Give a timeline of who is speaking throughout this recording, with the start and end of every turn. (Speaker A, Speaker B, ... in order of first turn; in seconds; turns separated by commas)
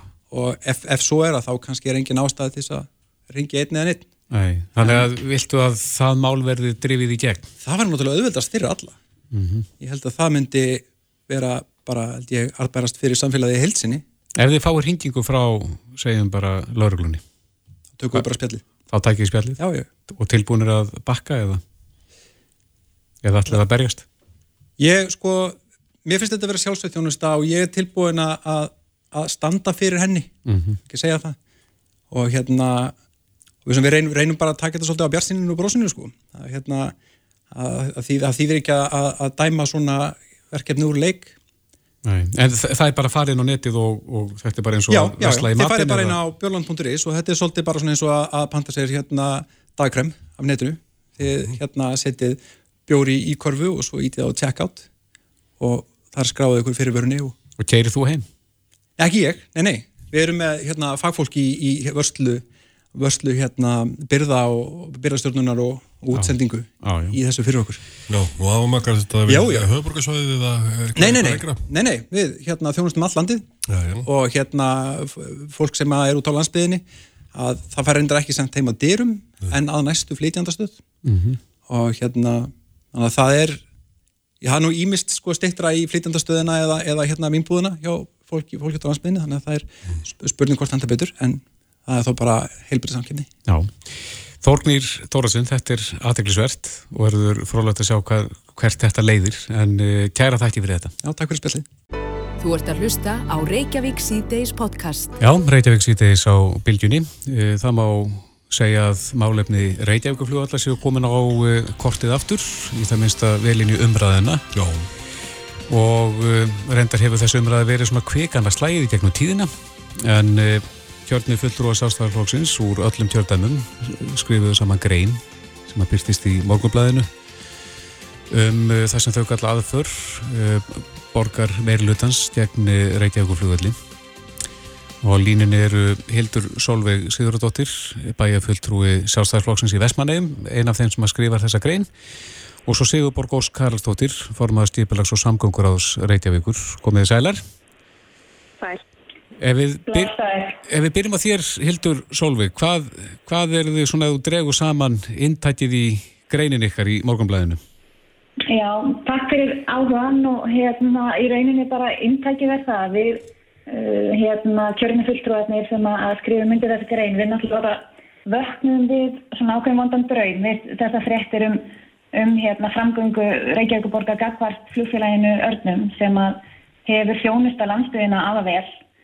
Speaker A: 0.3-4.0, Speaker B: 4.3-7.5, Speaker A: 7.6-8.9, Speaker B: 9.3-9.7, Speaker A: 9.8-14.0, Speaker B: 14.4-17.2, Speaker A: 17.9-18.6, Speaker B: 18.9-21.6, Speaker A: 19.6-19.9, Speaker B: 23.2-24.0, Speaker A: 24.8-30.3, Speaker B: 30.5-30.8, Speaker A: 30.9-31.4, Speaker A: 32.1-32.9, Speaker A: 33.6-36.9, Speaker A: 37.5-41.3, Speaker B: 42.0-46.2, Speaker A: 44.9-54.9, Speaker A: 55.6-57.3, Speaker B: 57.6-58.2, Speaker A: 59.0-67.8, Speaker B: 66.1-67.2, Speaker C: 68.1-71.7, Speaker A: 69.3-69.7, Speaker A: 71.0-73.5, Speaker C: 73.7-74.1, Speaker A: 74.0-80.8, Speaker B: 81.0-81.4, Speaker A: 81.7-83.6, Speaker A: 84.4-93.3, Speaker B: 93.5-100.9, Speaker A: 101.0-101.7, Speaker D: 102.4-105.1, Speaker B: 105.2-114.4, Speaker C: 114.5-114.9, Speaker B: 115.7-127.1, Speaker B: 128.3-133.8, Speaker B: 135.0-141.9, Speaker B: 142.7-147.4, Speaker B: 149.4-150.1, Speaker E: 149.9-150.6, Speaker B: 150.7-157.6, Speaker E: 158.5-178.7